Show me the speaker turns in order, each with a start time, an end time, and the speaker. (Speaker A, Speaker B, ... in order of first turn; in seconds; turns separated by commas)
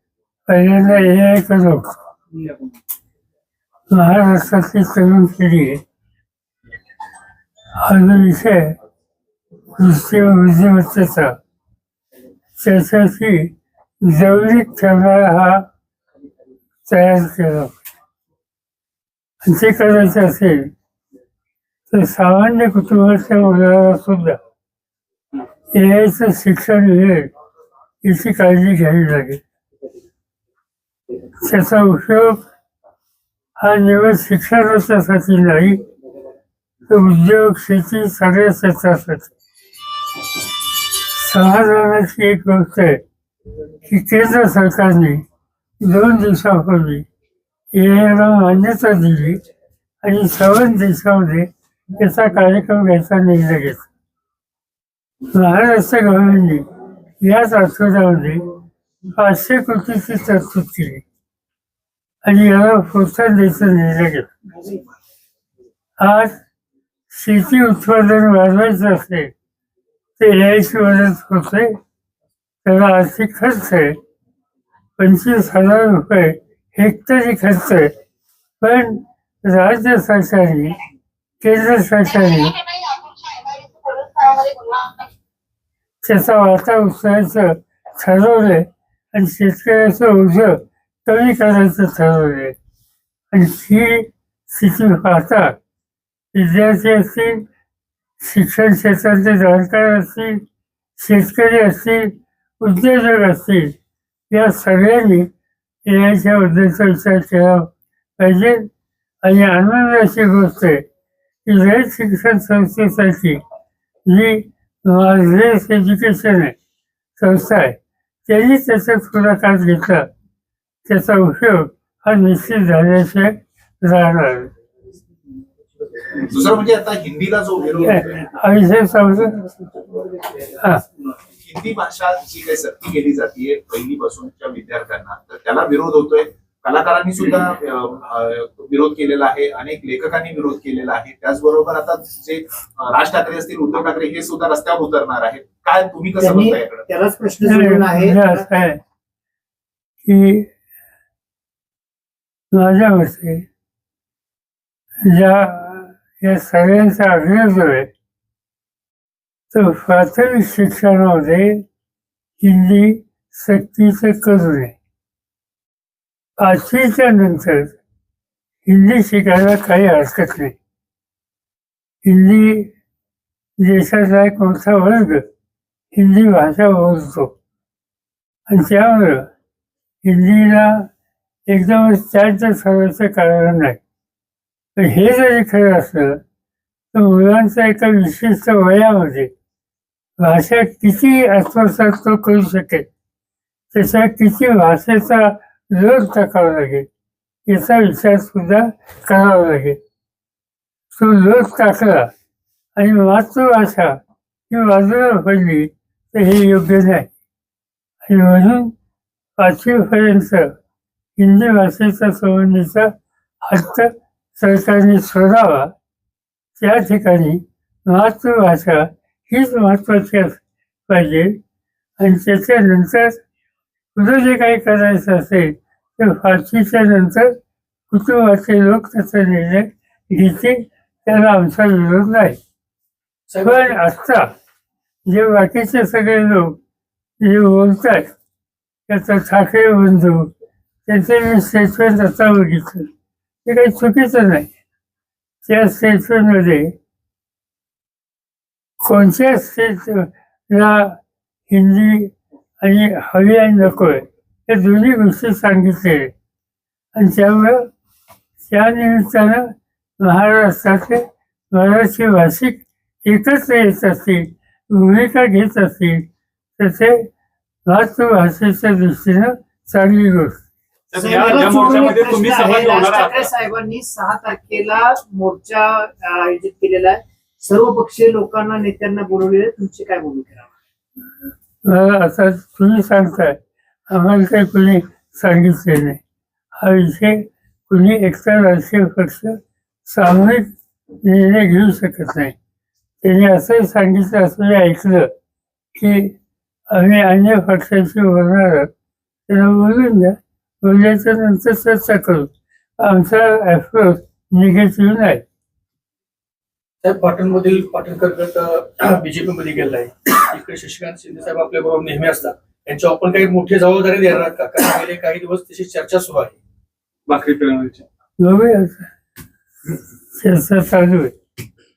Speaker A: 0.5-1.9, Speaker A: 3.9-5.8, Speaker A: 7.8-8.7, Speaker A: 9.8-11.3, Speaker A: 12.6-15.6, Speaker A: 16.9-17.7, Speaker A: 19.4-20.7, Speaker A: 21.9-24.4, Speaker A: 25.7-27.3, Speaker A: 28.0-29.4, Speaker A: 31.4-32.4, Speaker A: 33.6-35.8, Speaker A: 36.9-39.3, Speaker A: 41.0-43.0, Speaker A: 43.9-45.2, Speaker A: 45.8-47.0, Speaker A: 47.7-49.4, Speaker A: 50.0-53.9, Speaker A: 55.3-56.6, Speaker A: 57.2-58.4, Speaker A: 59.1-61.0, Speaker A: 62.2-64.3, Speaker A: 66.0-66.4, Speaker A: 67.1-69.3, Speaker A: 70.2-71.7, Speaker A: 72.6-74.0, Speaker A: 75.0-77.9, Speaker A: 78.6-80.8, Speaker A: 81.4-82.7, Speaker A: 86.0-92.5, Speaker A: 93.3-95.5, Speaker A: 96.3-97.4, Speaker A: 98.2-100.4, Speaker A: 101.0-103.7, Speaker A: 104.3-105.3, Speaker A: 105.8-108.7, Speaker A: 109.2-110.8, Speaker A: 111.5-113.4, Speaker A: 114.1-116.5, Speaker A: 117.2-120.0, Speaker A: 120.8-124.5, Speaker B: 126.1-128.2, Speaker A: 127.8-129.6, Speaker A: 130.5-130.8, Speaker B: 131.2-146.9, Speaker C: 146.2-148.5, Speaker A: 147.4-148.8, Speaker A: 150.0-150.5, Speaker A: 152.5-153.4, Speaker A: 155.0-157.9, Speaker A: 159.5-161.6, Speaker A: 162.4-164.7, Speaker A: 166.4-167.7, Speaker A: 168.7-170.5, Speaker A: 172.0-172.7, Speaker A: 173.6-175.2, Speaker A: 175.9-177.3, Speaker A: 178.5-179.3, Speaker A: 180.0-180.9, Speaker A: 181.5-183.8, Speaker A: 184.8-186.2, Speaker A: 186.9-189.3, Speaker A: 190.2-192.8, Speaker A: 193.7-196.8, Speaker A: 197.5-199.8, Speaker A: 200.9-202.1, Speaker A: 202.8-204.0, Speaker A: 204.5-207.1, Speaker A: 208.1-208.7, Speaker A: 209.4-210.5, Speaker A: 211.2-215.7, Speaker A: 216.6-221.3, Speaker A: 222.0-223.2, Speaker A: 223.9-227.3, Speaker A: 227.9-232.4, Speaker D: 233.3-233.8, Speaker A: 233.4-234.3, Speaker A: 235.1-236.6, Speaker A: 237.2-238.1, Speaker A: 238.9-240.3, Speaker A: 240.8-242.8, Speaker A: 243.4-244.5, Speaker A: 245.4-246.7, Speaker A: 248.8-251.0, Speaker A: 251.5-256.1, Speaker A: 256.9-257.6, Speaker A: 258.4-259.5, Speaker A: 260.0-266.1, Speaker A: 266.6-267.0, Speaker A: 267.7-270.4, Speaker E: 270.9-273.2, Speaker C: 270.9-280.5, Speaker A: 281.6-283.4, Speaker A: 283.9-286.0, Speaker A: 286.6-289.3, Speaker A: 289.9-290.5, Speaker A: 291.0-292.3, Speaker A: 293.0-295.1, Speaker A: 295.8-296.1, Speaker A: 296.7-298.7, Speaker A: 299.3-305.2, Speaker D: 306.8-316.4, Speaker E: 317.1-317.8, Speaker A: 318.2-318.9, Speaker A: 320.1-321.1